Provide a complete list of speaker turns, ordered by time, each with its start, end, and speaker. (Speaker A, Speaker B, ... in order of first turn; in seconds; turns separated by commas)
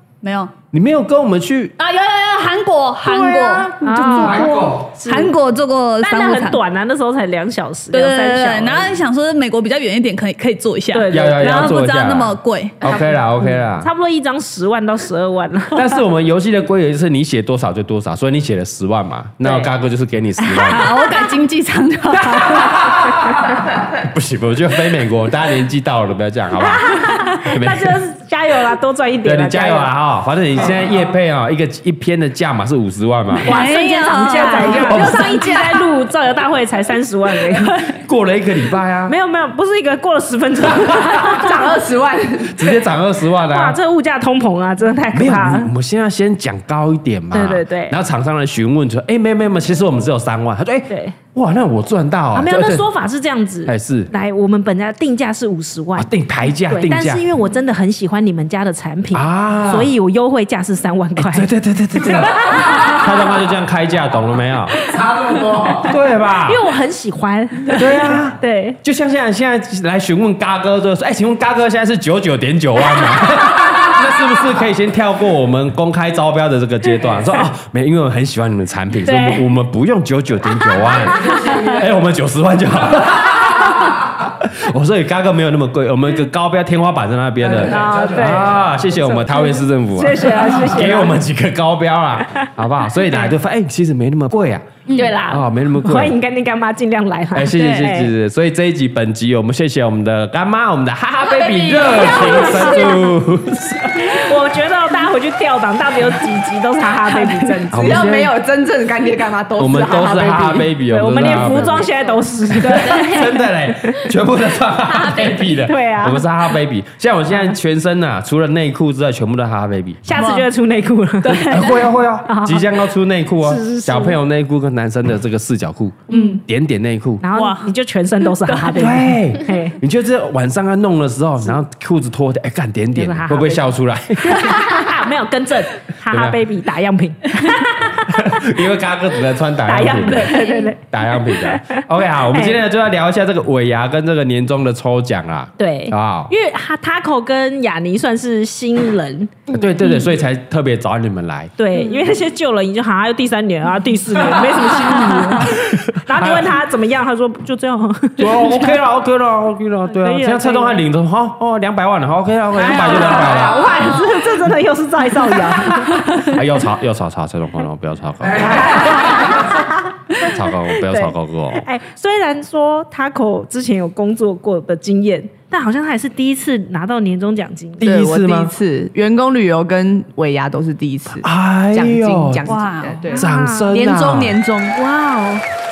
Speaker A: 0.2-0.5, Speaker B: 0.7-1.7, Speaker A: 1.8-6.6, Speaker C: 3.8-5.3, Speaker D: 4.2-4.9, Speaker C: 6.0-8.9, Speaker A: 7.9-12.8, Speaker C: 10.9-11.6, Speaker B: 11.1-13.9, Speaker C: 12.9-15.8, Speaker B: 15.7-20.9, Speaker C: 19.4-19.7, Speaker A: 20.6-22.9, Speaker C: 22.2-23.1, Speaker B: 22.5-28.0, Speaker C: 26.6-29.9, Speaker B: 29.2-33.5, Speaker C: 33.4-38.0, Speaker A: 33.4-35.9, Speaker B: 34.7-35.4, Speaker B: 37.9-39.1, Speaker C: 39.1-41.7, Speaker E: 41.1-42.7, Speaker B: 42.5-43.8, Speaker C: 43.5-45.7, Speaker B: 45.1-52.9, Speaker C: 47.3-48.0, Speaker C: 50.9-51.2, Speaker C: 52.3-56.1, Speaker B: 53.6-54.1, Speaker B: 56.0-57.3, Speaker C: 56.7-61.5, Speaker B: 59.1-59.9, Speaker B: 61.2-64.8, Speaker C: 62.0-63.0, Speaker D: 64.8-65.9, Speaker B: 65.9-66.6, Speaker C: 66.3-68.8, Speaker B: 67.7-94.7, Speaker C: 79.0-79.5, Speaker C: 81.2-81.8, Speaker D: 87.4-88.7, Speaker C: 87.7-91.2, Speaker C: 93.0-93.3, Speaker A: 94.9-95.2, Speaker C: 94.9-98.1, Speaker B: 95.3-96.2, Speaker B: 97.3-104.2, Speaker A: 101.2-103.0, Speaker C: 102.0-103.0, Speaker C: 103.9-108.1, Speaker E: 107.6-110.7, Speaker B: 107.7-108.3, Speaker B: 109.6-111.9, Speaker C: 110.9-114.0, Speaker B: 112.6-120.0, Speaker A: 115.1-115.4, Speaker C: 115.6-116.3, Speaker C: 120.0-121.7, Speaker A: 120.2-120.5, Speaker A: 121.2-121.8, Speaker B: 121.4-127.2, Speaker C: 122.3-122.7, Speaker C: 123.4-124.2, Speaker C: 126.1-126.4, Speaker A: 126.1-126.4, Speaker C: 127.2-129.8, Speaker A: 127.3-127.7, Speaker A: 128.4-128.9, Speaker B: 128.8-134.7, Speaker C: 132.9-138.3, Speaker B: 136.1-136.4, Speaker B: 138.1-146.3, Speaker C: 139.7-142.6, Speaker C: 145.6-149.5, Speaker B: 149.5-151.5, Speaker C: 151.6-158.8, Speaker B: 155.0-156.5, Speaker B: 158.2-164.0, Speaker C: 160.0-160.8, Speaker C: 162.6-166.4, Speaker B: 166.0-169.3, Speaker C: 168.4-177.9, Speaker B: 170.2-171.7, Speaker B: 177.8-178.5, Speaker E: 177.8-184.8, Speaker B: 181.2-182.5, Speaker A: 182.4-183.1, Speaker C: 183.0-183.8, Speaker B: 183.2-184.4, Speaker C: 184.7-185.4